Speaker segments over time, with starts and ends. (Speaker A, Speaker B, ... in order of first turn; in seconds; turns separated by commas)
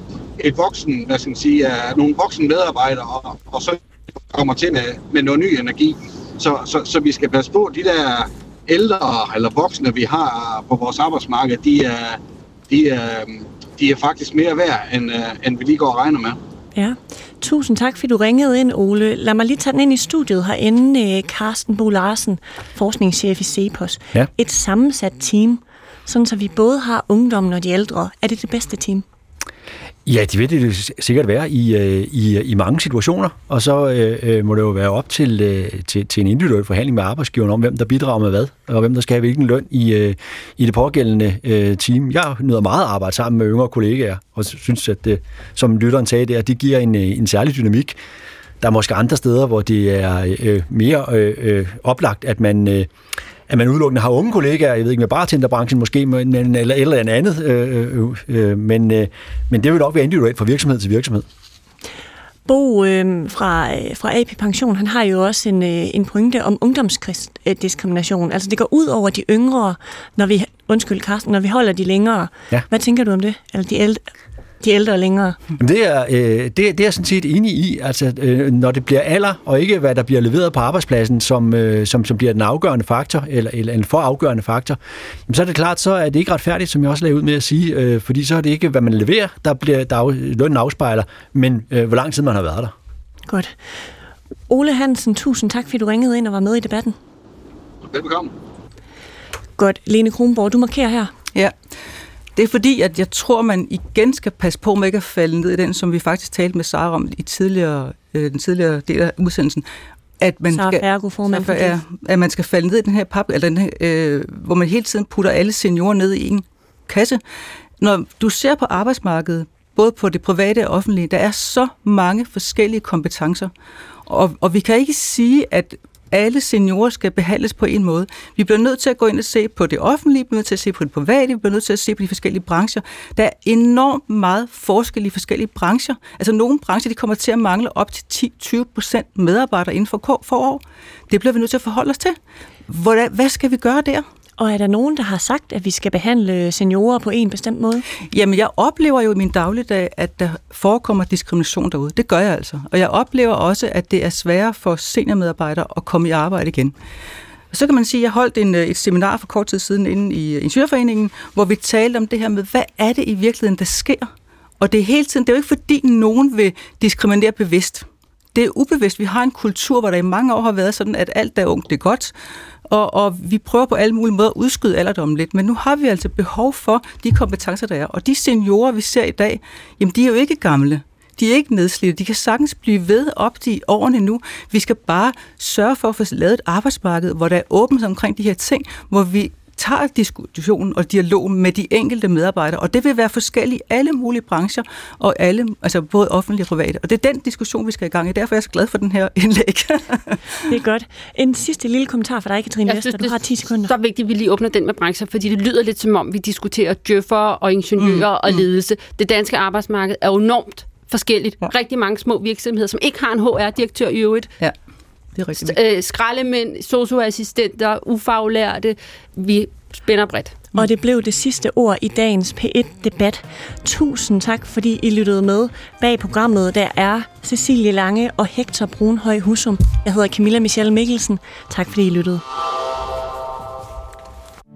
Speaker A: 0.4-16.4, Speaker B: 16.7-29.0, Speaker C: 30.1-48.0, Speaker C: 48.6-52.9, Speaker C: 53.5-61.2, Speaker B: 62.5-74.1, Speaker B: 74.6-75.4, Speaker C: 75.6-92.7, Speaker B: 93.3-93.5, Speaker B: 94.5-97.0, Speaker A: 97.8-98.3, Speaker B: 99.6-101.1, Speaker D: 102.3-109.6, Speaker D: 110.2-117.2, Speaker B: 110.5-111.8, Speaker D: 117.8-123.5, Speaker D: 124.1-142.2, Speaker D: 142.7-144.0, Speaker B: 144.4-147.8, Speaker D: 148.1-156.7, Speaker D: 157.5-172.1, Speaker D: 172.7-200.2, Speaker B: 200.5-203.7, Speaker E: 202.7-214.3, Speaker D: 207.8-208.4, Speaker D: 215.1-215.6, Speaker E: 215.4-220.4, Speaker B: 220.5-232.2